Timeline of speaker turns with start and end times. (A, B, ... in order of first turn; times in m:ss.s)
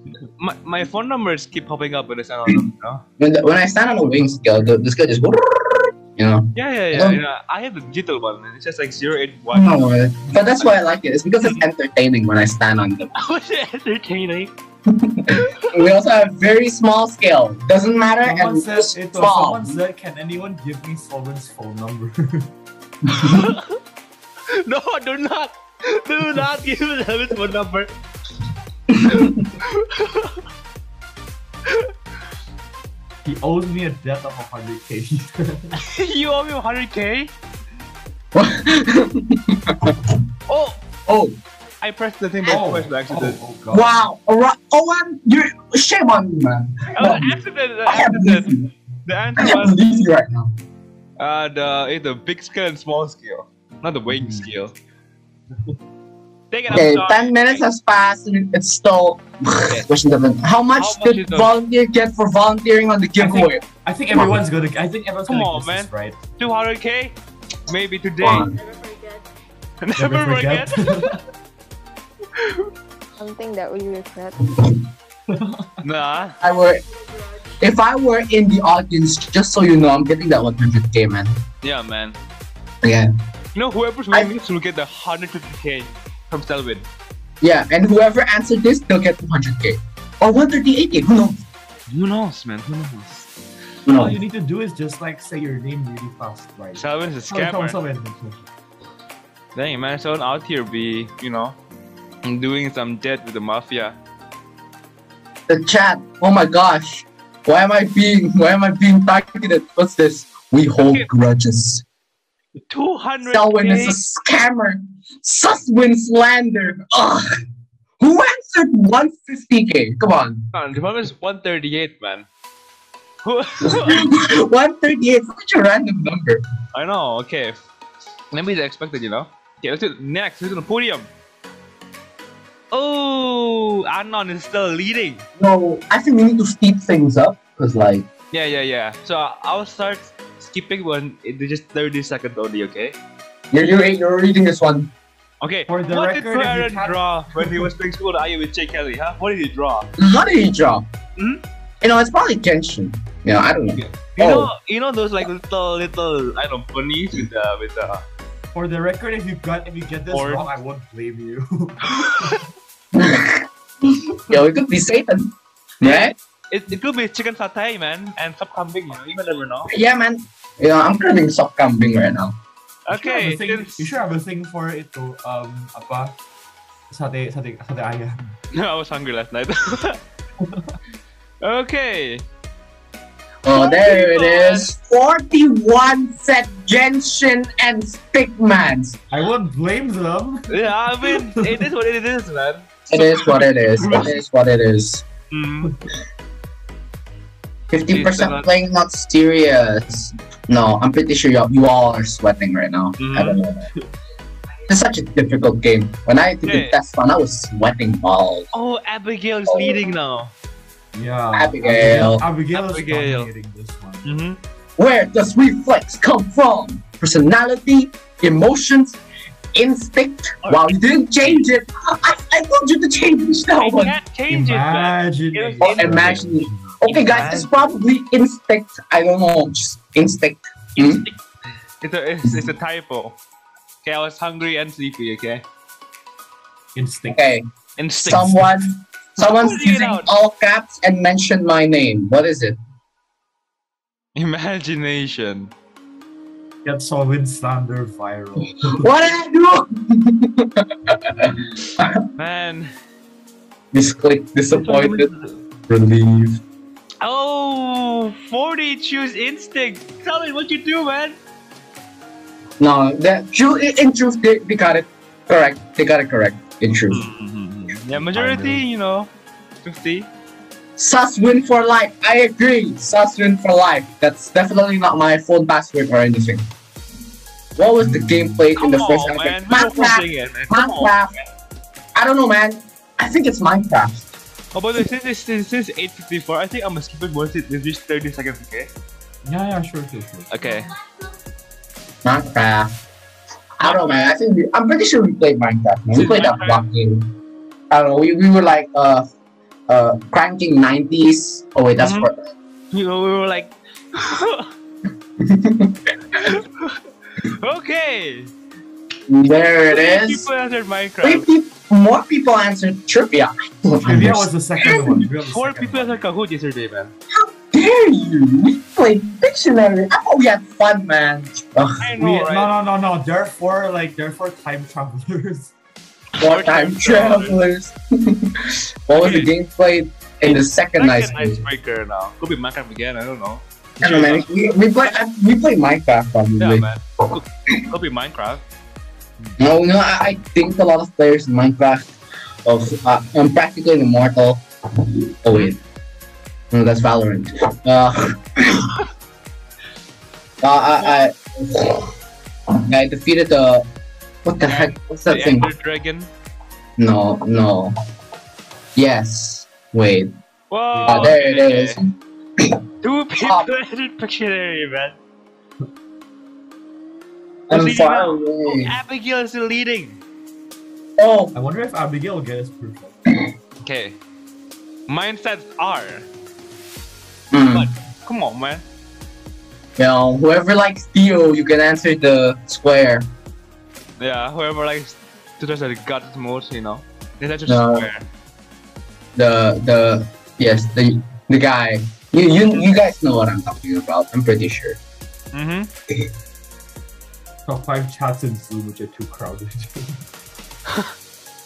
0:00.4-0:03.0 A
0:03.2-0:07.2 B
0:06.6-0:09.9 A
0:09.5-0:13.1 B
0:13.2-0:14.5 A
0:14.9-0:19.8 B
0:15.4-0:15.7 A
0:18.2-0:22.5 C
0:23.2-0:23.8 A
0:24.5-0:27.9 A
0:29.0-0:29.3 B
0:29.6-0:30.4 A
0:31.7-0:31.9 A
0:33.2-0:35.8 C
0:35.8-0:37.3 A
0:38.3-0:40.2 B
0:40.5-0:40.8 A
0:41.1-0:41.4 B
0:41.8-0:43.4 A
0:42.5-0:43.9 C
0:43.7-0:48.7 B
0:46.9-0:48.5 A
0:49.1-0:49.8 A
0:49.4-0:50.5 B
0:51.2-0:54.7 A
0:54.1-0:54.4 C
0:56.5-0:57.6 A
0:56.7-1:03.6 B
1:00.8-1:01.5 A
1:03.2-1:06.2 C
1:05.3-1:07.2 A
1:07.7-1:08.5 A
1:08.2-1:08.6 B
1:08.5-1:09.2 D
1:09.8-1:11.2 A
1:10.0-1:11.2 C
1:12.4-1:12.7 A
1:13.2-1:14.4 D
1:15.4-1:15.8 C
1:15.8-1:16.4 A
1:16.4-1:16.8 B
1:17.0-1:17.4 D
1:17.6-1:21.4 B
1:21.6-1:22.2 A
1:22.8-1:23.1 B
1:23.6-1:26.9 A
1:27.4-1:31.4 B
1:31.9-1:33.3 A
1:33.8-1:34.2 B
1:33.9-1:38.4 C
1:36.8-1:37.8 A
1:39.6-1:41.6 A
1:42.2-1:44.0 A
1:45.5-1:51.8 B
1:50.8-1:51.1 A
1:52.7-1:54.0 A
1:53.3-1:57.3 B
1:58.0-2:00.4 B
2:00.5-2:02.3 A
2:03.2-2:04.1 A
2:03.6-2:06.4 B
2:06.7-2:07.6 A
2:08.3-2:11.1 A
2:12.7-2:15.2 A
2:15.4-2:18.1 B
2:18.3-2:23.0 A
2:23.5-2:24.9 B
2:25.4-2:29.9 A
2:25.7-2:27.7 C
2:30.0-2:30.9 B
2:31.2-2:31.4 A
2:31.8-2:34.5 B
2:33.8-2:38.0 A
2:38.6-2:42.4 C
2:40.1-2:40.5 A
2:42.9-2:43.4 B
2:44.1-2:46.2 B
2:45.8-2:49.7 A
2:49.7-2:52.4 B
2:52.9-2:53.9 A
2:52.9-2:56.2 C
2:56.9-2:58.4 C
2:58.5-3:00.0 A
3:00.4-3:00.7 C
3:01.4-3:02.2 A
3:03.4-3:09.0 B
3:03.5-3:04.7 A
3:09.1-3:10.5 C
3:10.5-3:14.1 A
3:11.1-3:11.4 C
3:12.9-3:15.0 B
3:15.3-3:15.7 A
3:17.7-3:23.7 B
3:17.9-3:18.5 A
3:23.0-3:23.4 A
3:24.7-3:28.5 B
3:26.4-3:26.8 A
3:28.5-3:30.3 A
3:29.5-3:29.8 B
3:31.0-3:34.1 C
3:31.3-3:32.2 B
3:32.5-3:33.3 A
3:34.0-3:34.4 A
3:34.8-3:39.0 B
3:39.5-3:44.0 B
3:40.4-3:41.4 A
3:43.6-3:46.2 A
3:44.3-3:47.3 C
3:45.6-3:51.0 B
3:46.8-3:47.5 A
3:50.8-3:51.2 A
3:51.8-3:53.2 A
3:53.8-3:55.4 A
3:56.8-3:57.3 C
3:57.1-3:57.5 B
3:57.8-3:58.5 A
3:58.0-4:02.6 B
3:59.2-4:00.1 A
4:04.2-4:05.5 A
4:06.6-4:08.9 C
4:08.6-4:12.0 B
4:12.2-4:12.7 A
4:13.7-4:15.1 B
4:14.6-4:15.3 A
4:15.7-4:16.4 B
4:17.0-4:21.2 A
4:22.6-4:27.0 B
4:26.9-4:29.1 A
4:27.9-4:28.6 C
4:29.6-4:30.1 A
4:30.8-4:36.5 B
4:37.6-4:41.2 B
4:37.8-4:38.4 C
4:38.6-4:40.9 A
4:42.0-4:44.2 B
4:44.5-4:48.7 A
4:49.2-4:50.5 C
4:50.3-4:50.7 A
4:52.0-4:52.7 B
4:53.6-4:57.1 B
4:53.6-4:54.1 A
4:55.9-4:56.6 A
4:57.7-4:59.1 B
4:59.7-5:02.2 B
5:01.8-5:02.1 A
5:02.7-5:04.5 A
5:05.2-5:06.3 B
5:06.2-5:08.3 A
5:09.1-5:10.3 B
5:09.7-5:11.3 A
5:11.0-5:14.9 B
5:13.9-5:16.0 C
5:15.3-5:16.9 A
5:17.1-5:21.8 B
5:21.8-5:22.5 A
5:22.0-5:25.5 C
5:26.2-5:27.4 A
5:26.2-5:31.4 B
5:28.9-5:29.3 A
5:30.2-5:34.3 A
5:33.8-5:36.7 B
5:36.4-5:38.4 A
5:39.4-5:41.9 B
5:42.4-5:45.6 B
5:46.5-5:48.7 B
5:50.4-5:51.9 B
5:52.5-5:53.7 B
5:54.2-5:55.5 B
5:54.4-5:56.1 A
5:56.8-5:57.7 B
5:58.8-6:00.1 B
6:00.5-6:01.8 A
6:00.7-6:01.1 C
6:00.8-6:01.9 B
6:02.8-6:05.0 A
6:03.2-6:03.5 B
6:07.5-6:08.7 B
6:07.5-6:10.0 A
6:11.0-6:11.3 B
6:11.4-6:13.0 C
6:13.6-6:14.0 A
6:14.9-6:16.1 A
6:17.3-6:17.7 B
6:17.5-6:18.6 A
6:19.8-6:23.1 B
6:24.0-6:28.0 A
6:27.5-6:27.9 B
6:29.2-6:34.8 B
6:35.3-6:35.7 A
6:37.5-6:40.0 C